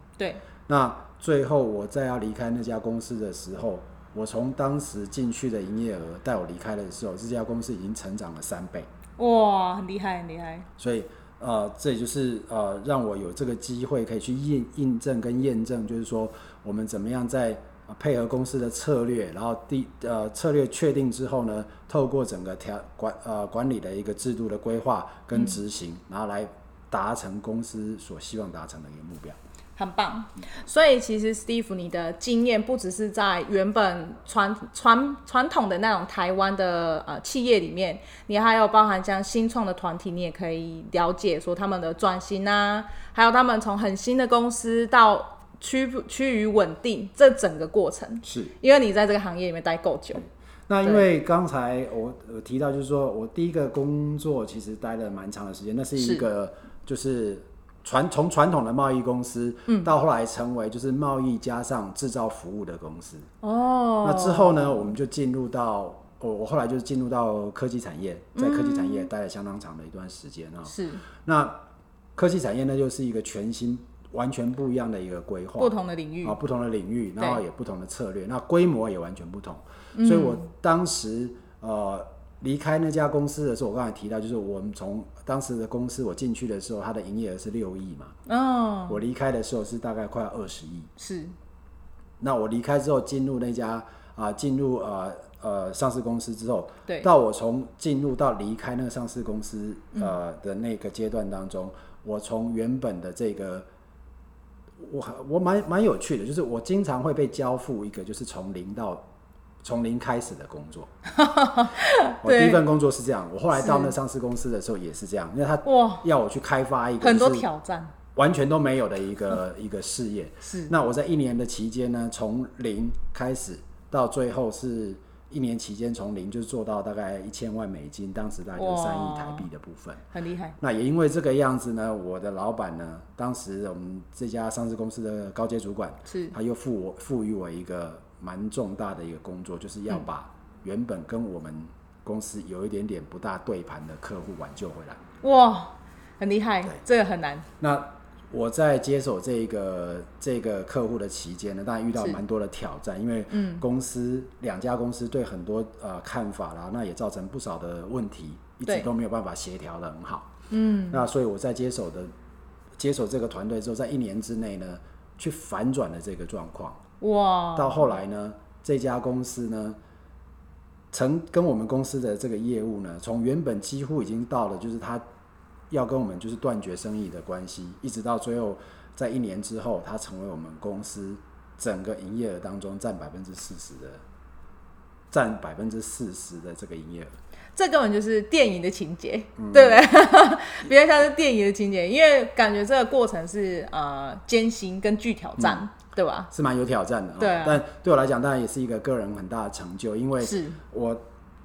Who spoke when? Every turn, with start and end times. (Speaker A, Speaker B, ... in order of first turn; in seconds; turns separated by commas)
Speaker A: 0.2-0.4, Speaker B: 0.7-8.9, Speaker A: 9.2-10.7, Speaker B: 10.8-29.4, Speaker A: 29.8-50.2, Speaker B: 48.2-48.5, Speaker B: 50.7-63.3, Speaker A: 56.0-56.2, Speaker A: 63.4-64.9, Speaker B: 64.0-71.6, Speaker A: 68.3-69.1, Speaker A: 70.7-71.0, Speaker B: 72.2-88.1, Speaker A: 75.6-76.4, Speaker A: 80.0-80.5, Speaker A: 88.3-89.0, Speaker B: 88.9-90.9, Speaker A: 91.0-91.3, Speaker B: 92.2-103.7, Speaker B: 104.8-109.1, Speaker B: 109.6-110.9, Speaker A: 111.1-112.6, Speaker B: 112.2-117.5, Speaker A: 113.5-114.0, Speaker A: 115.7-116.0, Speaker A: 117.0-117.9, Speaker B: 118.2-130.1, Speaker A: 120.4-120.7, Speaker A: 128.6-129.5, Speaker A: 130.1-130.6, Speaker B: 130.6-145.0, Speaker A: 136.1-136.3, Speaker A: 145.2-147.5, Speaker B: 147.6-160.3, Speaker A: 153.3-153.6, Speaker A: 160.5-161.0, Speaker B: 160.9-162.1, Speaker B: 162.8-166.8, Speaker A: 167.0-167.9, Speaker B: 167.6-169.8, Speaker B: 170.9-175.0, Speaker B: 175.7-184.0, Speaker B: 185.1-187.2, Speaker A: 187.6-196.3, Speaker B: 189.4-189.8, Speaker B: 195.4-195.6, Speaker B: 196.3-201.0, Speaker A: 197.2-197.6, Speaker A: 200.2-200.6